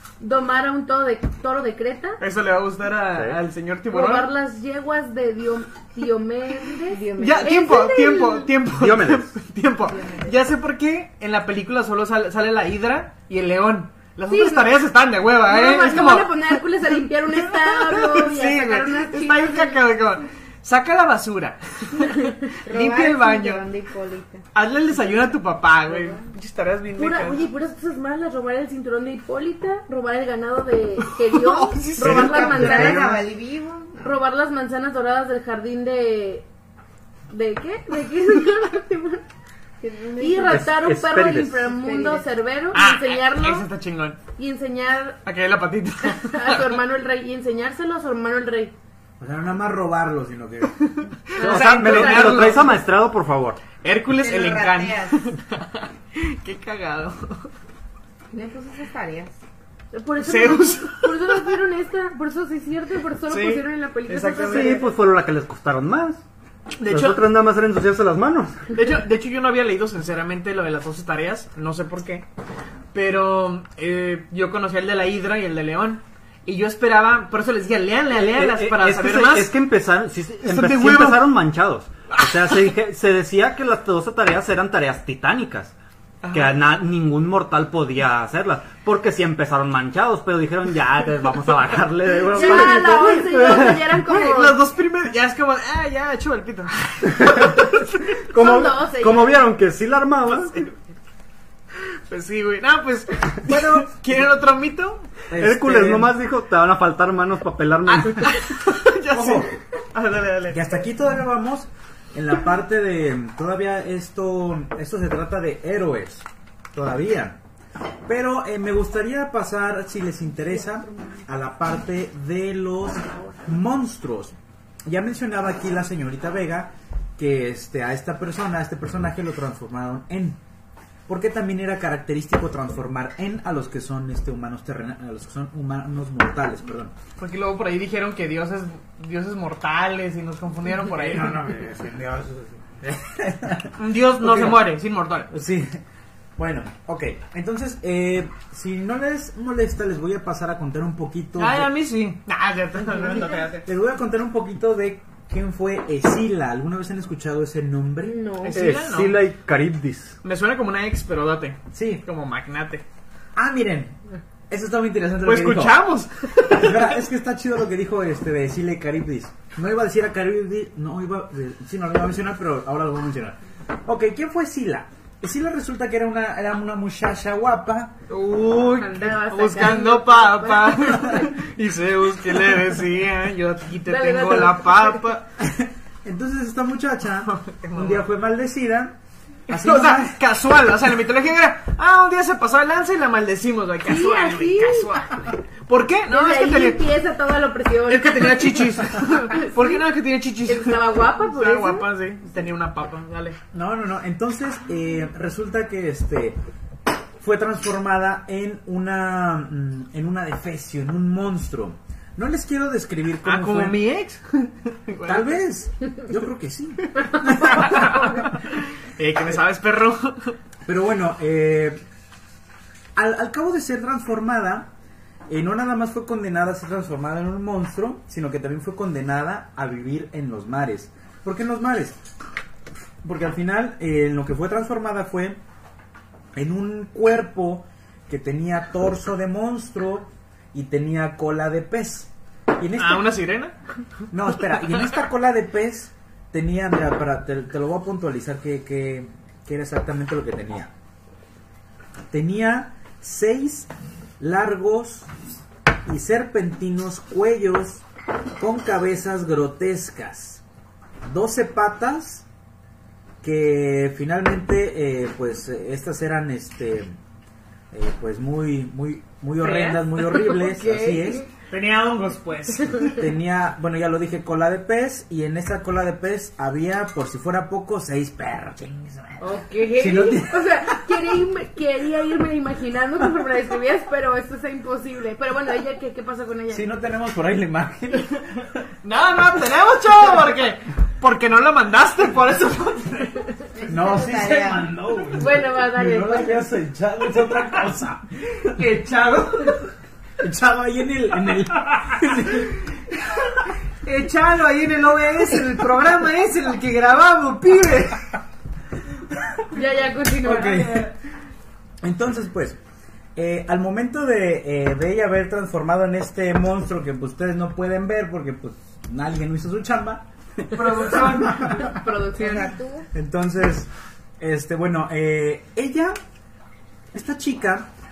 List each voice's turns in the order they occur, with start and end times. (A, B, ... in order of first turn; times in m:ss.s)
0:00.2-0:02.2 A
0:02.2-0:04.3 B
0:03.9-0:08.5 A
0:06.9-0:07.5 C
0:07.2-0:23.7 B
0:08.7-0:09.3 D
0:14.3-0:14.7 A
0:15.4-0:19.8 A
0:22.0-0:22.4 A
0:22.6-0:24.4 C
0:24.5-0:27.4 B
0:25.9-0:26.2 C
0:27.0-0:33.0 A
0:31.1-0:32.3 B
0:32.0-0:33.1 D
0:32.0-0:34.1 C
0:32.2-0:33.2 E
0:34.0-0:36.4 A
0:37.3-0:39.2 A
0:39.8-0:40.6 C
0:40.2-0:43.7 A
0:40.5-0:41.6 D
0:41.6-0:42.2 C
0:42.7-0:44.2 B
0:44.4-0:45.2 A
0:45.2-0:46.8 B
0:46.0-0:48.7 A
0:49.2-0:50.8 E
0:50.9-0:52.8 B
0:51.4-0:52.7 A
0:51.4-0:53.6 D
0:53.8-0:57.5 B
0:54.2-0:55.2 C
0:58.3-0:59.3 C
0:59.9-1:04.9 A
1:00.2-1:01.5 B
1:03.3-1:04.9 B
1:04.5-1:06.2 D
1:06.8-1:07.2 B
1:06.9-1:08.7 D
1:08.7-1:12.2 B
1:12.9-1:19.5 B
1:18.3-1:25.7 D
1:20.4-1:21.3 B
1:22.1-1:22.6 B
1:26.2-1:26.6 B
1:26.3-1:33.8 D
1:32.3-1:34.6 A
1:32.3-1:38.2 B
1:37.2-1:37.6 D
1:38.1-1:40.7 D
1:38.3-1:39.4 A
1:40.3-1:40.7 B
1:41.8-1:45.1 B
1:45.3-1:46.1 E
1:45.3-1:48.4 D
1:47.9-1:50.8 B
1:49.1-1:49.6 E
1:50.5-1:57.4 E
1:58.1-2:04.3 E
2:04.8-2:10.4 E
2:11.1-2:16.9 E
2:17.2-2:21.3 B
2:20.9-2:24.7 E
2:23.8-2:25.3 B
2:25.3-2:25.8 E
2:26.4-2:31.7 E
2:31.4-2:33.6 B
2:33.6-2:38.2 E
2:38.0-2:38.6 A
2:38.4-2:39.2 B
2:38.5-2:40.2 D
2:40.2-2:42.8 B
2:41.7-2:42.0 E
2:43.3-2:43.9 E
2:44.5-2:45.8 E
2:45.2-2:46.9 B
2:46.5-2:57.9 E
2:58.1-3:05.2 B
2:58.8-3:01.3 A
3:03.8-3:05.0 A
3:05.4-3:09.0 E
3:07.2-3:08.1 B
3:09.5-3:10.2 E
3:09.5-3:16.8 B
3:13.8-3:15.0 A
3:16.1-3:19.8 A
3:17.9-3:23.4 B
3:20.4-3:21.9 A
3:23.5-3:26.4 E
3:27.2-3:33.8 E
3:33.2-3:35.3 B
3:35.0-3:38.2 E
3:37.5-3:40.4 B
3:40.6-3:41.8 E
3:42.9-3:44.7 E
3:45.3-3:52.0 E
3:53.0-3:55.4 E
3:56.3-4:03.1 E
4:02.8-4:03.5 B
4:04.1-4:10.7 E
4:12.1-4:15.1 E
4:15.8-4:17.8 E
4:18.4-4:20.4 E
4:21.1-4:22.2 E
4:23.2-4:26.9 E
4:27.7-4:31.3 E
4:29.4-4:31.3 A
4:31.4-4:33.0 B
4:33.0-4:39.2 E
4:39.2-4:46.7 A
4:39.8-4:40.9 E
4:46.5-4:48.2 E
4:48.8-4:53.3 B
4:53.5-4:54.7 C
4:53.7-4:58.6 E
4:55.2-4:56.5 A
4:58.4-4:59.6 B
5:00.2-5:02.6 E
5:03.0-5:08.1 B
5:09.5-5:10.9 A
5:10.2-5:10.9 E
5:11.8-5:12.6 E
5:13.2-5:21.8 E
5:20.5-5:21.6 B
5:20.7-5:22.5 A
5:22.1-5:22.9 C
5:22.9-5:25.9 E
5:26.9-5:27.7 E